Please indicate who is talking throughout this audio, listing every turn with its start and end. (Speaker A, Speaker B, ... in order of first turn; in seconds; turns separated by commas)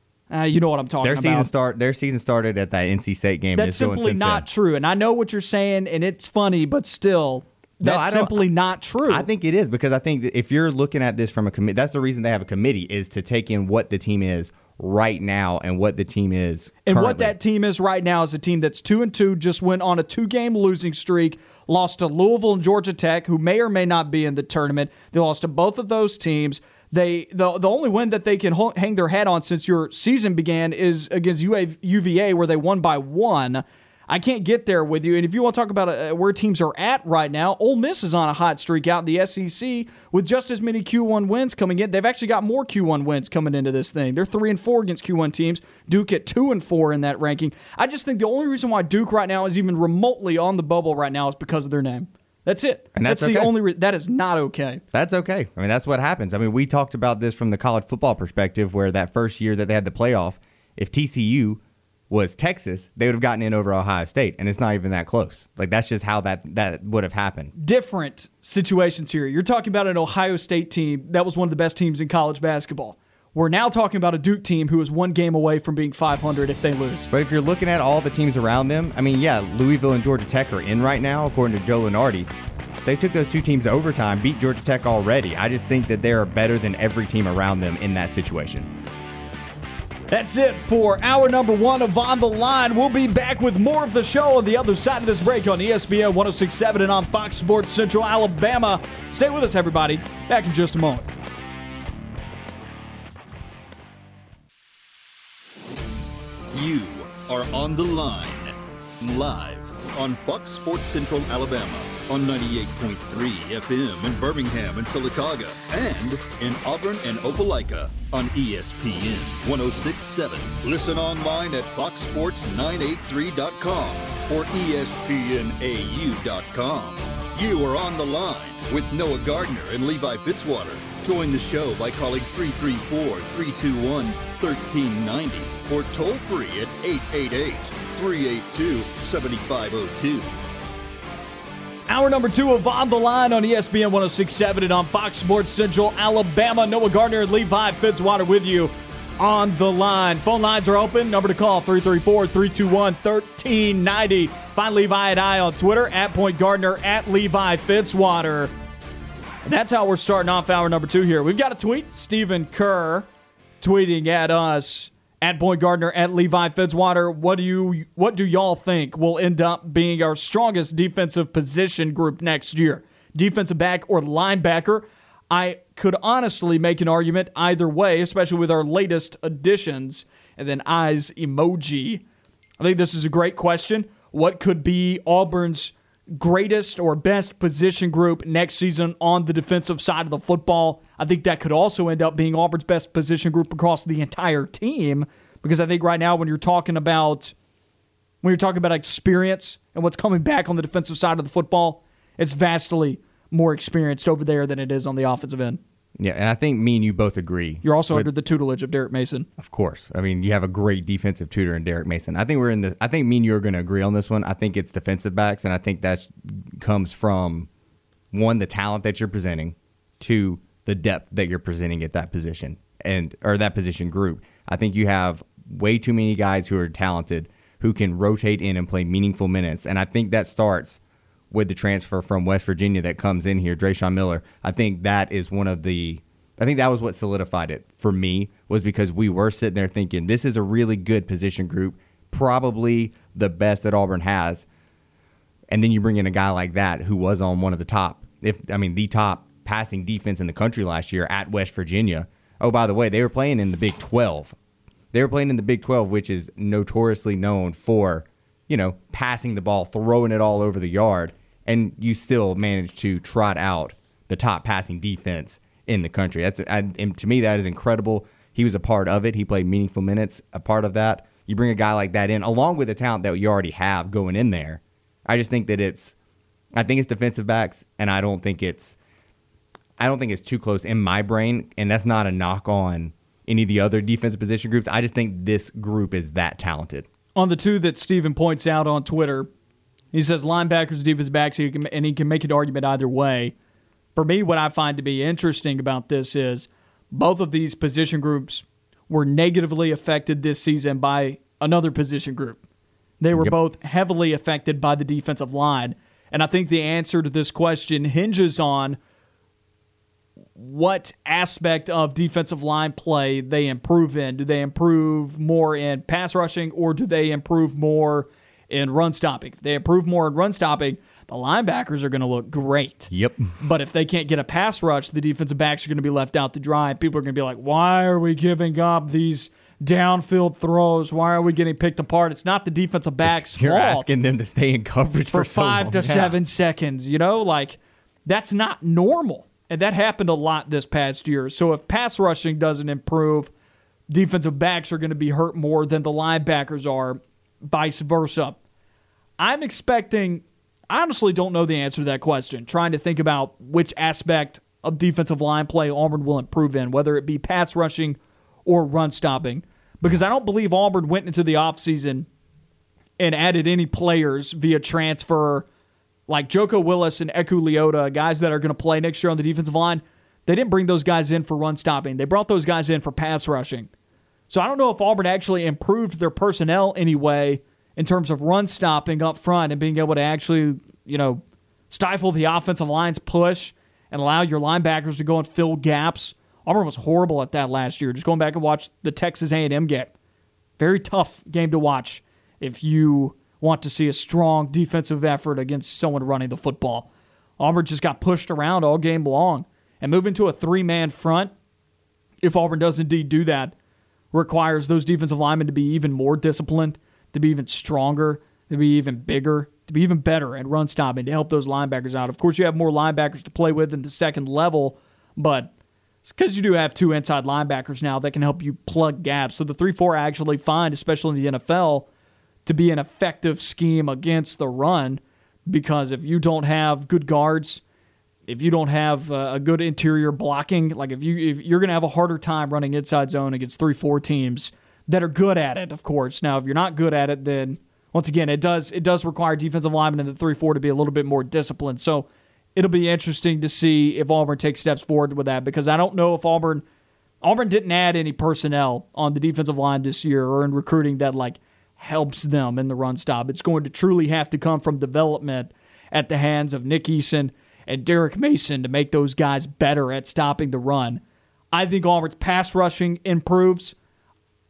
Speaker A: 0.3-1.5, Speaker B: 1.0-4.4, Speaker A: 3.5-9.3, Speaker B: 7.8-8.4, Speaker B: 9.1-17.3, Speaker A: 16.8-54.8, Speaker B: 52.9-53.5, Speaker B: 54.9-67.5, Speaker A: 67.5-77.1, Speaker B: 77.1-82.3, Speaker B: 82.8-88.7, Speaker A: 90.1-101.1, Speaker C: 106.5-140.3, Speaker A: 141.9-158.5, Speaker A: 159.4-163.1, Speaker A: 163.6-182.0, Speaker A: 182.6-197.3, Speaker A: 198.2-205.6, Speaker B: 206.0-208.1, Speaker A: 207.6-209.3, Speaker B: 209.4-217.5, Speaker B: 218.1-230.8, Speaker B: 231.3-244.5, Speaker B: 245.5-254.3, Speaker B: 254.9-275.9, Speaker B: 276.5-278.8, Speaker B: 279.8-286.9, Speaker A: 287.1-289.3, Speaker A: 289.9-293.3, Speaker A: 293.9-302.4, Speaker A: 303.0-308.8, Speaker A: 310.4-333.9, Speaker B: 322.9-323.3, Speaker B: 333.0-336.1, Speaker A: 335.1-343.3, Speaker A: 343.9-348.4, Speaker A: 349.2-362.1, Speaker A: 363.0-365.4, Speaker A: 366.1-373.7, Speaker A: 374.3-389.9, Speaker A: 390.6-396.9, Speaker A: 397.4-401.3, Speaker A: 402.2-403.5, Speaker A: 404.1-415.5, Speaker A: 416.0-421.9, Speaker A: 422.4-427.6, Speaker A: 428.3-446.6, Speaker A: 447.2-461.0, Speaker A: 461.5-463.8